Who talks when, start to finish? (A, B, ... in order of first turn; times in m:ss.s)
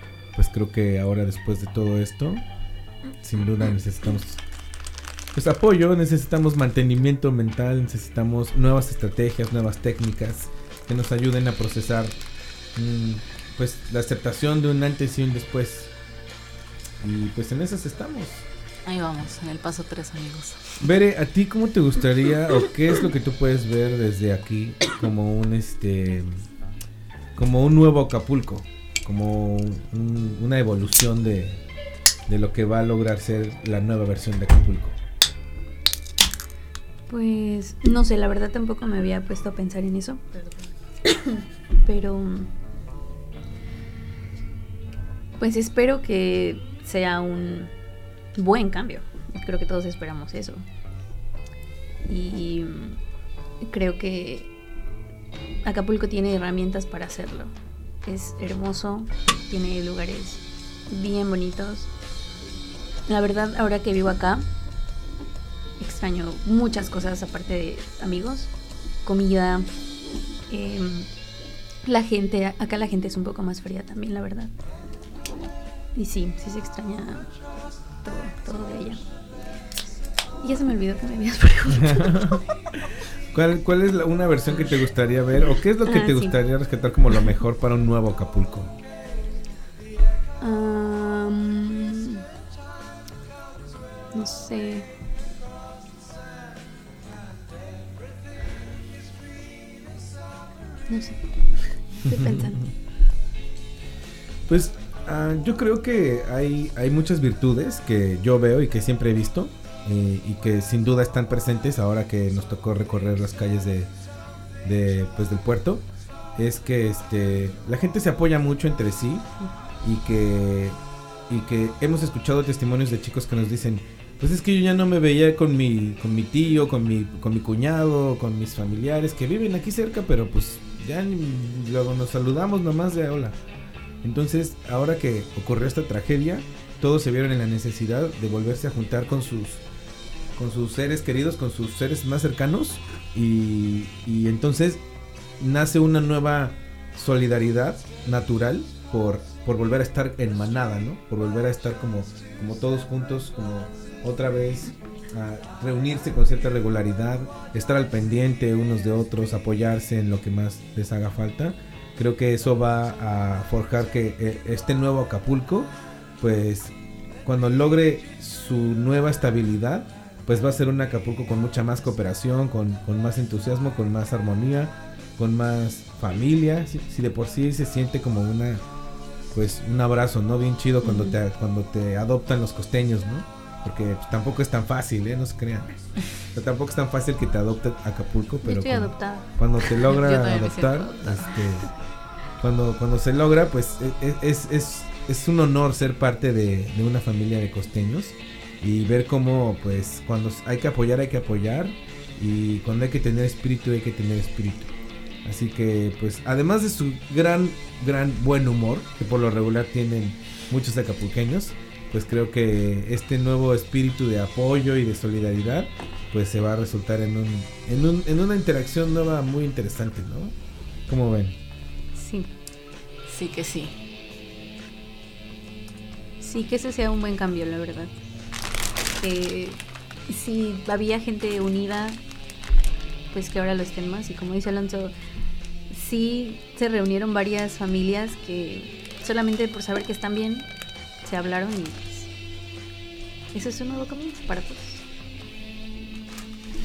0:00.3-0:02.4 A
0:03.2-0:04.4 A
0:05.3-0:12.2 A
0:12.8-0:15.9 A
0:17.0-0:18.5 A
0:18.9-0:20.9 B
0:20.8-0:26.4 A
0:27.4-0:31.6 A
0:32.3-0:35.0 A
0:37.1-0:40.2 C
0:40.3-0:40.7 B
0:41.1-0:42.5 C
0:45.4-0:47.7 C
0:48.4-0:50.6 C
0:52.1-0:53.0 C
0:53.6-0:54.5 C
0:55.6-0:57.5 C
0:58.1-1:01.9 C
1:03.1-1:04.5 C
1:05.8-1:08.5 C
1:09.0-1:09.7 C
1:10.5-1:11.1 C
1:11.8-1:14.5 C
1:16.0-1:17.4 C
1:18.0-1:19.0 C
1:20.4-1:22.4 C
1:21.8-1:22.4 A
1:23.3-1:28.7 A
1:25.8-1:26.4 C
1:30.4-1:32.2 C
1:34.1-1:34.9 C
1:40.9-1:42.7 C
1:44.5-1:53.9 A
1:54.6-1:55.8 A
1:56.4-1:59.3 A
1:59.8-2:00.8 A
2:01.3-2:13.4 A
2:14.0-2:19.6 A
2:20.4-2:24.8 A
2:25.4-2:58.6 A
2:59.3-3:11.7 A
3:00.8-3:01.2 C
3:08.4-3:09.2 C
3:09.9-3:11.4 B
3:12.4-3:40.4 A
3:40.9-3:41.4 A
3:42.0-3:42.3 C
3:43.1-3:43.8 B
3:46.2-3:48.0 C
3:49.0-3:52.0 C
3:53.1-3:54.9 C
3:55.7-4:00.5 C
4:01.0-4:02.1 C
4:03.3-4:04.8 C